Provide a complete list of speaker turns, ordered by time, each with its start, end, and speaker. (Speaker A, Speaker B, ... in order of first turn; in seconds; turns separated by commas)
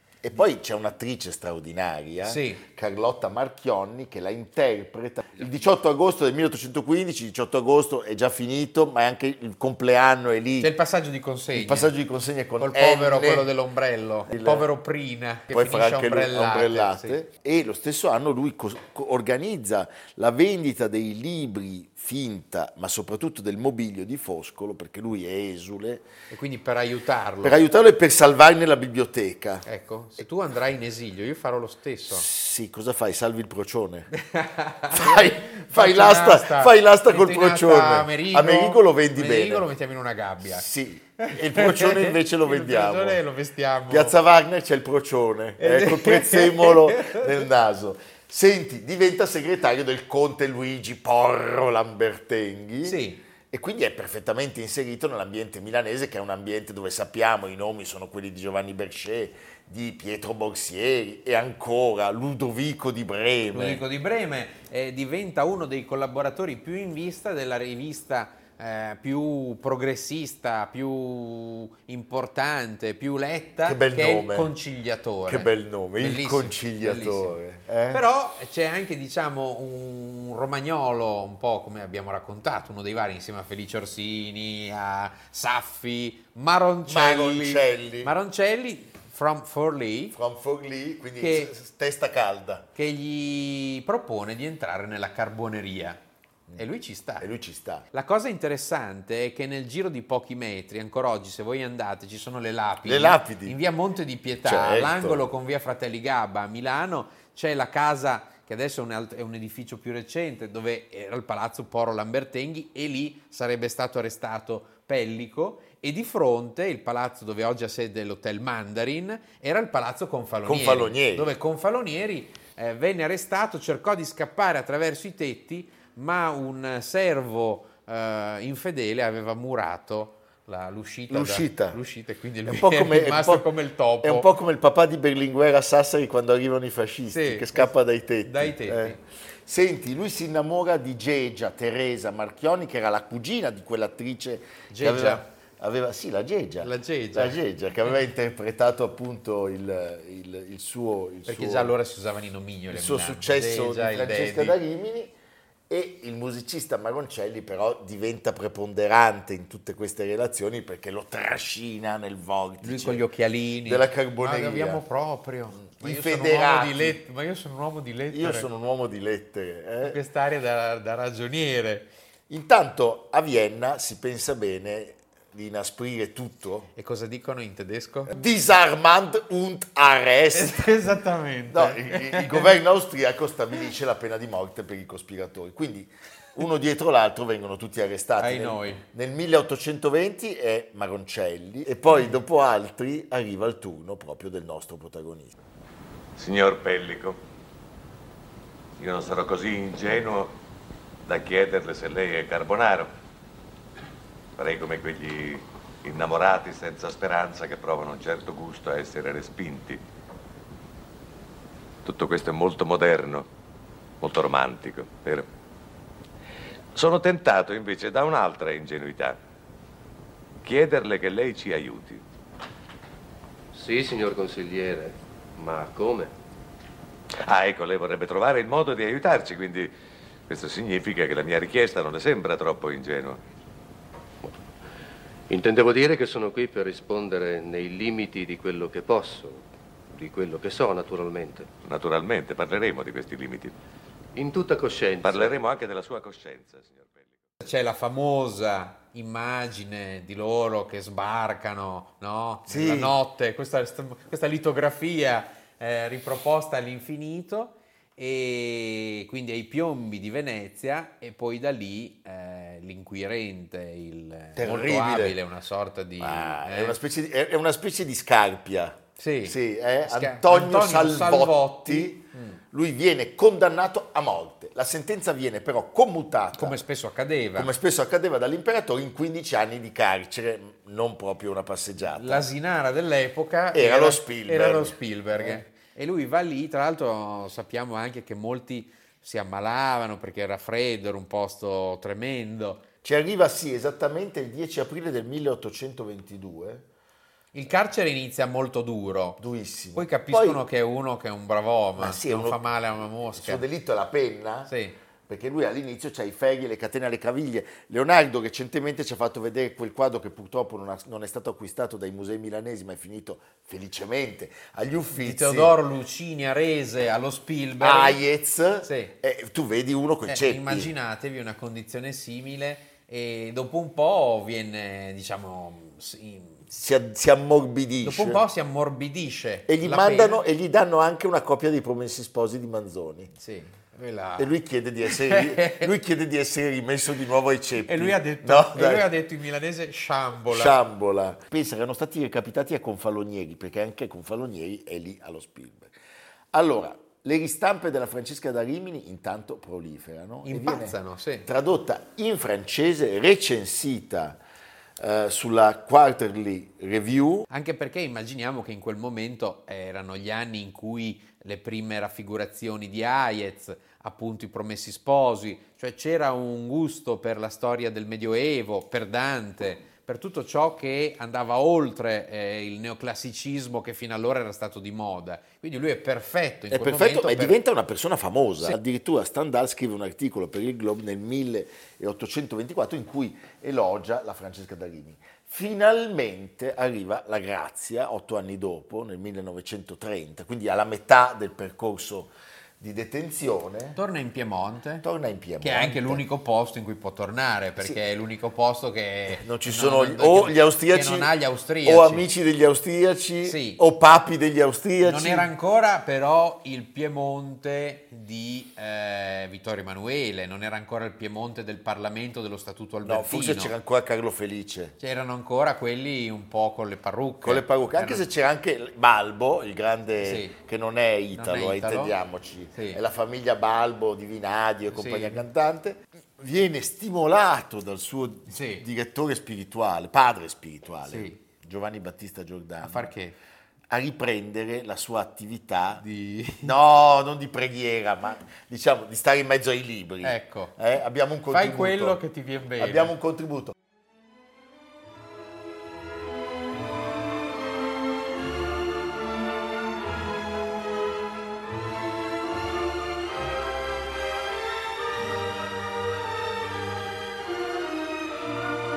Speaker A: 0.2-10.7, Speaker B: 2.2-2.6, Speaker B: 10.6-11.9, Speaker A: 11.5-13.5, Speaker B: 12.6-17.2, Speaker A: 14.3-14.7, Speaker A: 15.5-26.1, Speaker B: 26.3-27.6, Speaker A: 27.4-29.6, Speaker B: 29.7-32.3, Speaker A: 32.1-34.1, Speaker B: 34.1-40.7, Speaker A: 34.9-39.7, Speaker A: 40.4-43.2, Speaker B: 41.2-44.1, Speaker A: 43.9-63.8, Speaker B: 45.6-47.4, Speaker B: 52.8-53.2, Speaker B: 63.5-77.4, Speaker A: 73.6-74.5, Speaker A: 75.3-78.0, Speaker B: 77.9-90.2, Speaker A: 86.9-88.1, Speaker A: 90.1-92.7, Speaker B: 91.2-91.5, Speaker B: 92.8-96.0, Speaker B: 96.6-97.3, Speaker A: 97.2-97.9, Speaker B: 97.9-134.3, Speaker A: 102.8-103.6, Speaker A: 104.4-105.2, Speaker A: 120.5-121.3, Speaker A: 131.1-131.8, Speaker A: 132.4-133.5, Speaker A: 134.0-151.8, Speaker B: 137.1-139.0, Speaker B: 144.7-145.2, Speaker B: 146.6-147.4, Speaker B: 151.2-154.6, Speaker A: 152.7-155.1, Speaker A: 155.7-163.1, Speaker B: 162.6-168.5, Speaker A: 163.6-164.8, Speaker A: 165.5-167.0, Speaker A: 168.1-170.0, Speaker B: 169.8-171.9, Speaker A: 172.3-176.7, Speaker B: 176.8-178.1, Speaker A: 178.1-180.7, Speaker B: 180.3-182.6, Speaker A: 181.5-195.3, Speaker B: 188.2-188.8, Speaker C: 196.2-197.2, Speaker C: 198.8-200.4, Speaker C: 201.1-202.9, Speaker C: 204.4-209.8, Speaker C: 211.8-213.3, Speaker C: 214.0-215.2, Speaker C: 216.8-219.2, Speaker C: 220.4-222.0, Speaker D: 223.5-226.1, Speaker C: 227.2-229.7, Speaker C: 230.3-233.2, Speaker D: 235.3-241.5, Speaker C: 241.6-243.5, Speaker D: 244.1-245.4, Speaker C: 245.0-247.2, Speaker B: 247.4-266.8, Speaker A: 252.5-253.0, Speaker A: 264.4-265.2, Speaker A: 266.0-276.6, Speaker B: 269.0-272.4, Speaker B: 276.4-277.5, Speaker A: 277.4-282.2, Speaker B: 281.9-292.6, Speaker A: 283.5-285.4, Speaker A: 292.8-296.6, Speaker B: 297.3-299.2, Speaker A: 299.2-300.4, Speaker B: 299.7-303.4, Speaker A: 301.8-302.4, Speaker A: 303.1-304.5, Speaker B: 304.5-304.8, Speaker A: 305.1-315.6, Speaker B: 315.0-318.0, Speaker A: 317.6-320.7, Speaker B: 318.6-318.9, Speaker B: 320.1-326.4, Speaker A: 326.5-328.2, Speaker B: 327.8-330.2, Speaker A: 329.5-333.1, Speaker B: 333.1-335.7, Speaker A: 334.2-338.9, Speaker B: 337.6-340.6, Speaker A: 340.3-345.7, Speaker A: 346.3-354.2, Speaker B: 350.2-351.3, Speaker A: 354.8-357.3, Speaker B: 357.3-377.4, Speaker A: 376.5-393.8, Speaker B: 393.8-394.9, Speaker A: 394.8-396.0, Speaker B: 395.4-402.1, Speaker A: 399.1-405.3, Speaker B: 403.2-403.6, Speaker B: 404.8-413.5, Speaker A: 412.8-414.8, Speaker B: 414.8-418.0, Speaker A: 417.2-432.9, Speaker B: 420.0-420.4, Speaker B: 421.1-421.9, Speaker B: 422.5-422.8, Speaker B: 424.7-425.2, Speaker B: 428.3-428.6, Speaker B: 430.9-431.2, Speaker B: 432.6-433.1, Speaker A: 433.7-435.8, Speaker B: 435.8-436.5, Speaker A: 436.4-442.0, Speaker B: 440.0-440.6, Speaker B: 441.3-442.9, Speaker A: 442.6-443.6